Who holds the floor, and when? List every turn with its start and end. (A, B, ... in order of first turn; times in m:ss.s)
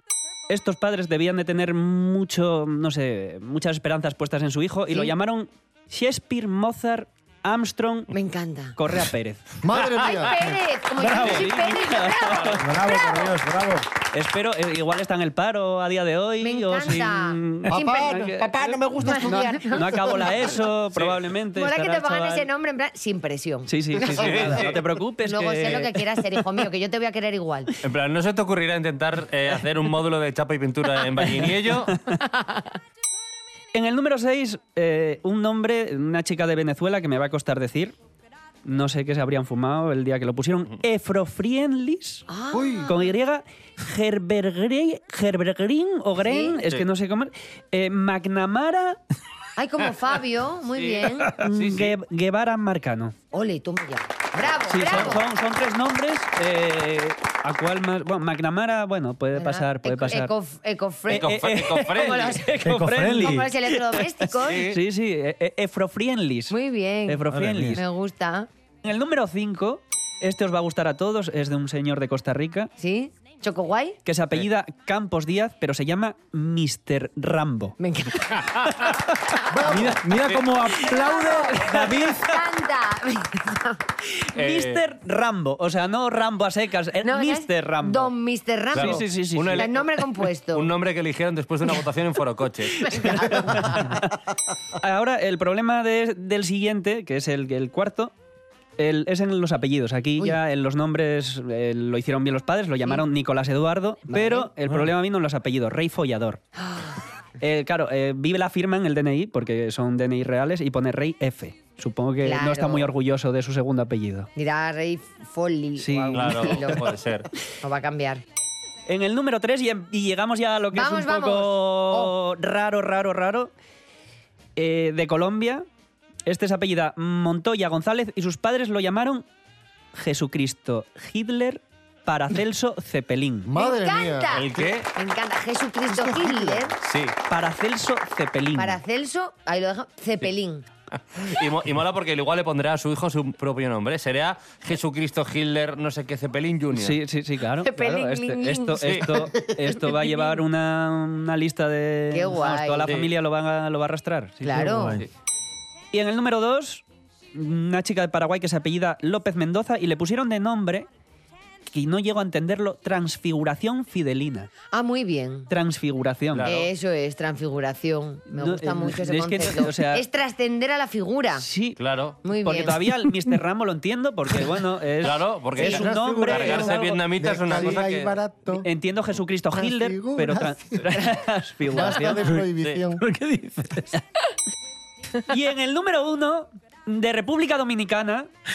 0:00.5-0:08.1 A
0:08.1-0:08.8 B
0:08.8-0:09.5 A
0:09.6-0:10.5 C
0:09.9-0:13.3 B
0:11.0-0:11.5 D
0:11.0-0:12.6 A
0:12.5-0:13.9 D
0:14.1-0:22.5 A
0:16.4-0:18.2 B
0:17.7-0:20.3 C
0:19.0-0:20.4 B
0:21.6-0:27.7 B
0:23.7-0:26.1 A
0:24.0-0:24.8 E
0:27.8-0:32.0 E
0:31.4-0:32.2 A
0:32.3-0:32.6 B
0:33.7-0:38.0 A
0:38.6-0:42.3 A
0:42.3-0:43.1 B
0:42.5-0:42.9 C
0:42.9-0:49.0 A
0:46.2-0:46.6 B
0:49.6-0:51.3 B
0:50.8-0:52.0 E
0:51.4-0:53.2 A
0:53.3-0:55.2 B
0:54.7-1:00.3 A
0:59.4-1:02.5 B
1:01.1-1:06.6 A
1:01.1-1:02.4 E
1:02.6-1:03.5 D
1:03.2-1:04.7 B
1:04.4-1:04.8 E
1:06.5-1:08.5 B
1:07.1-1:07.8 A
1:07.3-1:07.8 D
1:08.8-1:12.7 A
1:12.8-1:14.0 B
1:14.0-1:17.8 A
1:17.8-1:18.8 B
1:19.5-1:20.0 C
1:19.5-1:22.3 D
1:20.9-1:23.8 B
1:21.6-1:22.2 A
1:24.3-1:28.1 A
1:24.4-1:24.8 E
1:27.0-1:30.7 B
1:28.7-1:29.7 A
1:28.7-1:29.9 E
1:30.5-1:33.7 E
1:32.8-1:34.0 A
1:32.9-1:34.0 B
1:34.8-1:38.1 A
1:38.8-1:46.4 A
1:44.1-1:44.5 B
1:46.6-1:47.0 B
1:47.4-1:54.3 A
1:52.2-1:52.9 B
1:54.4-1:57.0 B
1:55.8-1:56.5 A
1:56.1-1:57.3 E
1:57.6-1:58.2 B
1:58.9-2:03.5 A
2:00.7-2:02.1 B
2:04.6-2:05.7 A
2:06.3-2:09.2 A
2:10.0-2:13.5 A
2:13.5-2:14.5 C
2:13.6-2:16.8 B
2:14.3-2:14.9 E
2:15.9-2:16.7 C
2:16.8-2:17.2 E
2:17.3-2:18.8 A
2:18.6-2:20.6 B
2:21.1-2:27.0 E
2:26.7-2:35.0 A
2:27.6-2:29.3 B
2:28.8-2:29.1 E
2:29.9-2:30.4 B
2:32.1-2:32.9 B
2:34.4-2:35.0 B
2:34.8-2:35.0 D
2:35.9-2:40.9 A
2:41.7-2:44.5 A
2:44.7-2:45.5 B
2:45.5-2:46.5 A
2:46.3-2:46.7 E
2:46.5-2:51.5 B
2:48.3-2:50.0 A
2:51.4-2:51.8 A
2:51.8-2:52.2 E
2:52.2-2:52.8 B
2:52.4-2:57.0 A
2:55.0-2:58.2 E
2:55.6-2:58.7 C
2:58.5-3:02.2 A
2:59.5-3:01.0 C
3:01.7-3:03.0 C
3:03.0-3:04.0 D
3:05.2-3:08.3 A